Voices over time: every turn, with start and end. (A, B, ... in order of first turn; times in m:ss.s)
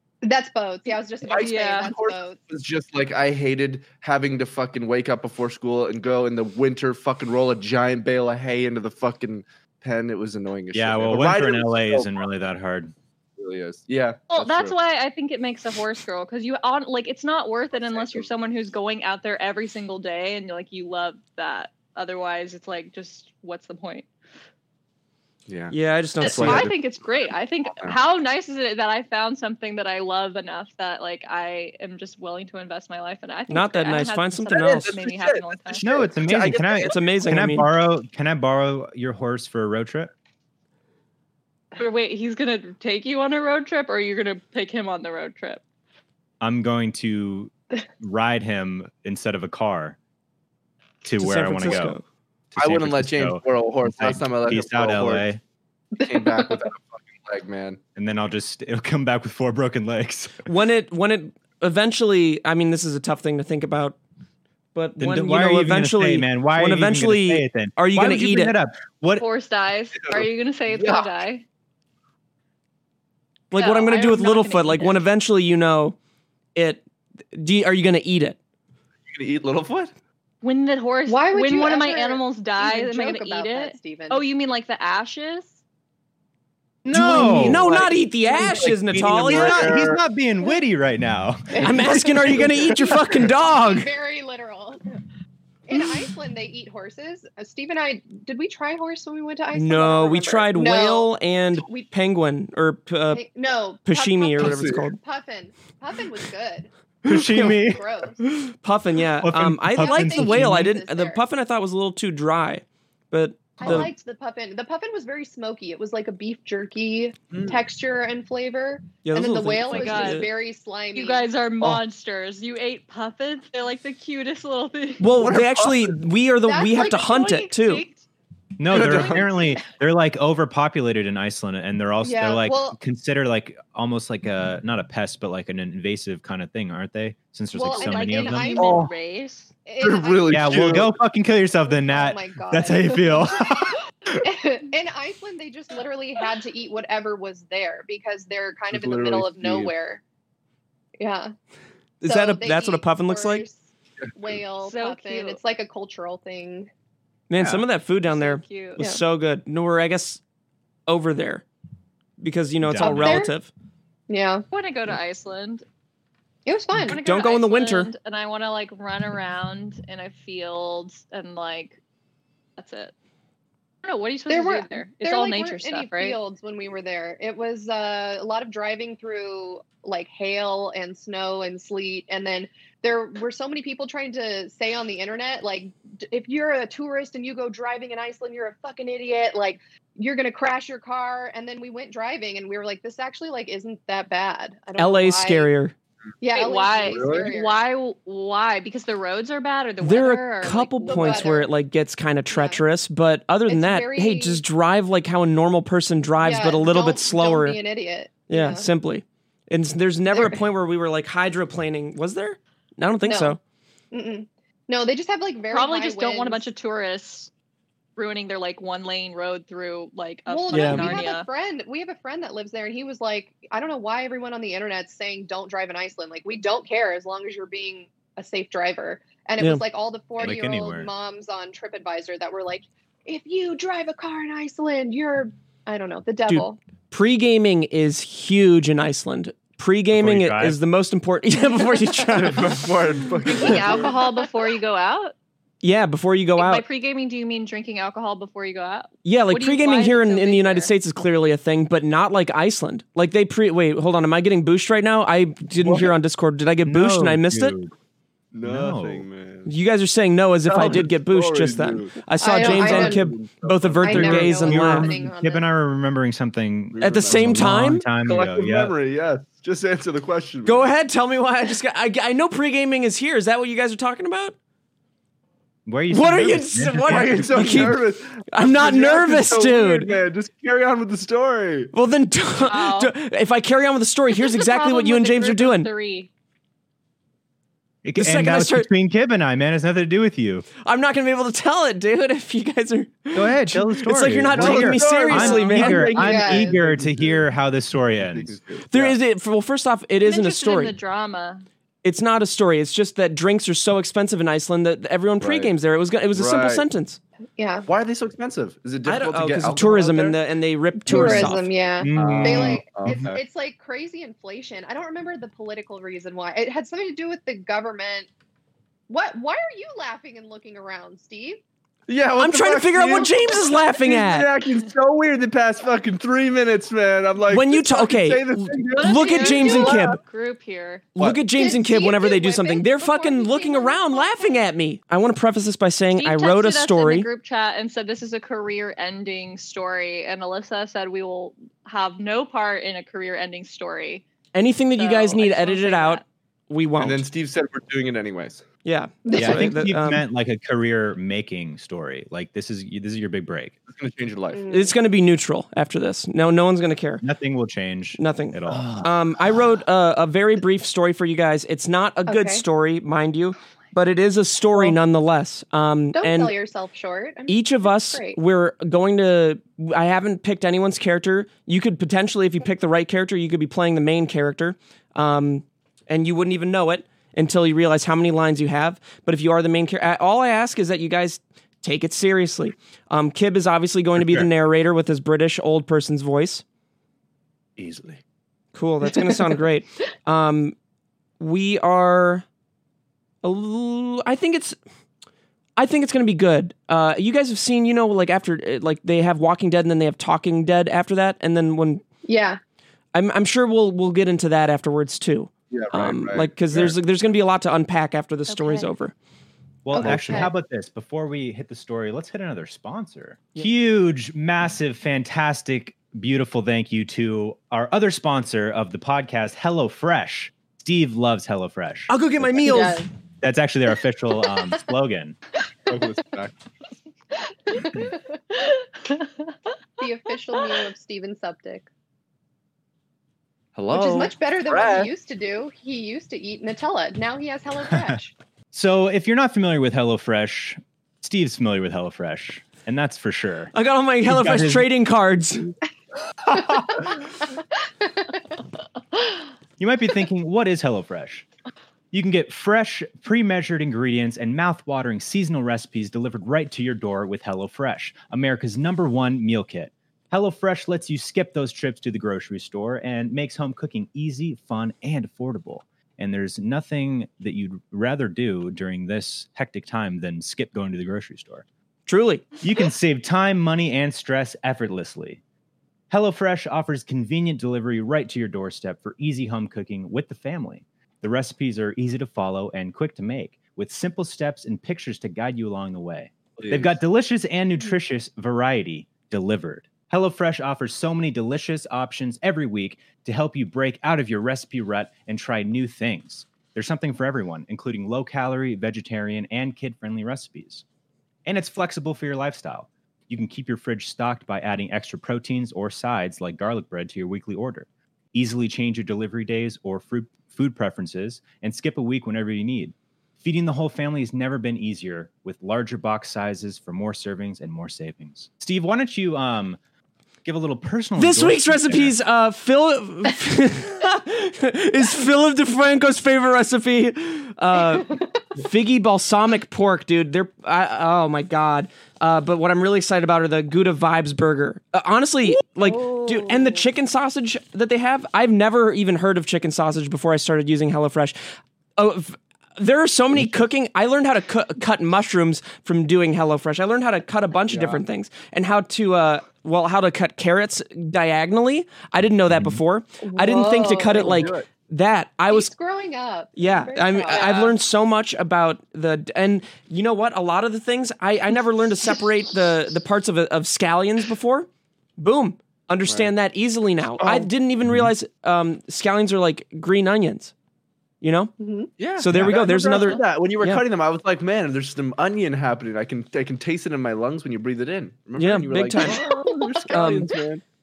0:00.2-0:02.4 A
0:01.2-0:12.1 B
0:01.3-0:01.9 C
0:10.7-0:12.9 D
0:13.4-0:14.8 B
0:14.3-0:24.1 C
0:17.7-0:18.3 B
0:25.5-0:26.8 B
0:25.7-0:26.7 E
0:26.2-0:35.8 C
0:27.7-0:28.0 B
0:33.5-0:35.0 E
0:34.5-0:36.9 B
0:35.8-0:40.1 D
0:36.7-0:37.7 E
0:41.8-0:45.6 C
0:46.4-0:50.0 D
0:51.0-0:52.0 D
0:51.2-0:52.0 E
0:52.6-0:55.2 B
0:52.6-0:55.4 D
0:56.0-0:56.6 A
0:56.0-0:57.8 B
0:58.0-1:00.5 D
1:00.4-1:04.0 E
1:04.7-1:08.6 E
1:05.0-1:09.2 D
1:09.1-1:11.4 C
1:10.0-1:11.1 B
1:13.5-1:16.0 E
1:13.5-1:15.0 C
1:16.5-1:18.4 E
1:19.1-1:19.9 B
1:20.4-1:25.6 C
1:21.1-1:24.2 A
1:26.8-1:27.9 D
1:26.9-1:29.8 E
1:27.1-1:28.7 A
1:28.5-1:32.4 D
1:28.6-1:30.0 B
1:31.5-1:34.8 A
1:31.6-1:33.9 E
1:35.7-1:41.9 A
1:39.5-1:43.2 E
1:43.1-1:46.7 A
1:43.9-1:45.0 E
1:44.4-1:44.8 B
1:47.0-1:47.8 D
1:47.0-1:47.6 E
1:47.3-1:48.2 A
1:48.2-1:53.9 E
1:49.2-1:50.7 D
1:49.8-1:51.2 A
1:53.6-2:01.3 A
1:57.3-1:57.6 B
1:59.0-2:00.3 E
1:59.7-2:00.3 C
2:00.9-2:05.1 C
2:05.0-2:07.8 E
2:05.2-2:05.9 B
2:06.4-2:07.4 A
2:07.0-2:08.0 C
2:08.6-2:18.7 D
2:08.7-2:09.3 B
2:12.0-2:12.8 A
2:17.5-2:18.9 A
2:17.6-2:19.5 C
2:18.6-2:18.9 B
2:19.6-2:20.6 A
2:19.8-2:20.9 B
2:20.3-2:23.8 D
2:21.7-2:23.4 A
2:24.1-2:30.0 A
2:28.7-2:29.7 B
2:31.0-2:31.3 A
2:32.0-2:33.4 E
2:32.0-2:33.6 A
2:34.1-2:36.7 A
2:34.6-2:35.4 C
2:37.3-2:40.2 E
2:38.1-2:38.8 C
2:40.9-2:41.4 E
2:42.2-2:43.5 E
2:42.6-2:43.2 D
2:42.8-2:43.3 A
2:44.1-2:44.4 A
2:44.5-2:45.6 C
2:46.4-2:47.0 A
2:46.9-2:47.9 E
2:46.9-2:51.8 C
2:52.6-2:52.9 C
2:53.8-2:56.2 C
2:54.3-3:15.5 A
3:14.8-3:15.7 E
3:16.2-3:17.6 A
3:16.3-3:21.3 C
3:16.8-3:17.3 B
3:19.8-3:27.6 E
3:20.8-3:21.5 A
3:22.3-3:22.6 A
3:23.5-3:24.4 A
3:26.2-3:28.7 A
3:28.3-3:33.4 E
3:30.1-3:30.4 A
3:33.0-3:33.4 A
3:33.9-3:36.5 A
3:35.5-3:37.3 C
3:38.0-3:41.3 C
3:40.3-3:56.6 A
3:40.5-3:41.0 E
3:50.2-3:50.9 D
3:56.3-4:02.8 E
3:59.9-4:00.6 D
4:02.1-4:04.0 B
4:03.2-4:05.1 C
4:03.5-4:03.9 A
4:05.6-4:06.6 E
4:06.4-4:10.7 C
4:09.0-4:17.5 E
4:15.6-4:15.9 B
4:16.6-4:17.7 D
4:18.3-4:19.5 B
4:18.4-4:19.0 D
4:19.4-4:24.9 E
4:20.5-4:24.1 B
4:22.2-4:23.1 A
4:23.8-4:25.5 A
4:23.9-4:28.7 D
4:26.7-4:30.7 B
4:26.8-4:27.9 E
4:30.4-4:34.3 E
4:35.6-4:37.7 D
4:35.9-4:39.9 E
4:36.9-4:41.7 B
4:41.7-4:45.7 E
4:42.4-4:42.9 C
4:44.3-4:46.1 C
4:47.8-4:50.5 D
4:48.0-4:48.7 E
4:50.6-4:55.9 E
4:53.1-4:58.4 D
4:54.3-4:57.3 B
4:55.9-4:56.5 A
4:58.0-4:59.0 B
4:58.7-5:00.7 E
5:00.0-5:01.4 C
5:01.8-5:07.0 E
5:05.2-5:05.5 B
5:06.1-5:06.6 B
5:07.4-5:07.7 A
5:07.7-5:10.2 B
5:08.8-5:11.5 E
5:10.8-5:18.1 A
5:10.9-5:11.3 B
5:11.8-5:13.1 D
5:11.9-5:13.2 B
5:18.9-5:21.4 A
5:21.9-5:30.0 B
5:22.2-5:24.3 E
5:27.3-5:30.0 E
5:28.8-5:30.9 C
5:31.0-5:37.1 E
5:31.0-5:31.2 B
5:31.3-5:34.4 A
5:35.9-5:44.0 C
5:44.3-5:47.0 E
5:44.8-5:46.0 C
5:46.8-5:48.4 B
5:48.6-5:50.0 E
5:49.0-5:49.5 A
5:49.1-5:53.6 D
5:53.7-5:54.5 B
5:54.3-5:54.7 A
5:54.5-5:57.0 E
5:57.0-5:58.9 D
5:58.0-6:06.3 E
6:02.0-6:02.4 A
6:05.9-6:08.2 A
6:07.3-6:26.4 E
6:24.0-6:24.3 D
6:27.6-6:28.0 D
6:28.5-6:30.5 E
6:31.2-6:32.2 E
6:33.2-6:34.6 E
6:35.6-6:41.8 E
6:42.1-6:42.4 A
6:42.9-6:48.9 E
6:45.5-6:46.8 B
6:49.6-7:02.6 D
6:49.7-6:50.3 A
6:49.8-6:50.3 B
7:01.9-7:02.9 E
7:02.4-7:02.9 A
7:03.2-7:05.2 D
7:05.7-7:06.3 B
7:07.5-7:08.4 A
7:09.8-7:11.7 A
7:13.6-7:14.9 B
7:13.7-7:18.1 A
7:17.7-7:18.0 D
7:18.5-7:24.7 D
7:23.5-7:25.5 E
7:26.2-7:26.9 D
7:26.3-7:26.9 A
7:29.6-7:31.2 D
7:31.9-7:51.4 D
7:51.9-7:52.3 E
7:52.4-7:55.2 D
7:55.9-8:20.6 D
8:06.4-8:06.8 B
8:21.2-8:39.6 D
8:40.2-8:41.9 D
8:41.0-9:01.2 E
8:55.6-8:56.6 A
9:01.8-9:15.5 E
9:07.5-9:07.8 B
9:12.3-9:12.6 D
9:13.0-9:14.3 A
9:13.9-9:14.5 B
9:15.3-9:17.5 A
9:16.4-9:30.3 E
9:25.9-9:26.1 B
9:27.0-9:27.3 B
9:27.6-9:27.9 D
9:31.0-9:31.3 E
9:31.4-9:31.7 A
9:31.8-9:40.4 B
9:32.0-9:33.6 E
9:38.2-9:39.0 E
9:38.8-9:39.8 A
9:39.7-9:40.2 E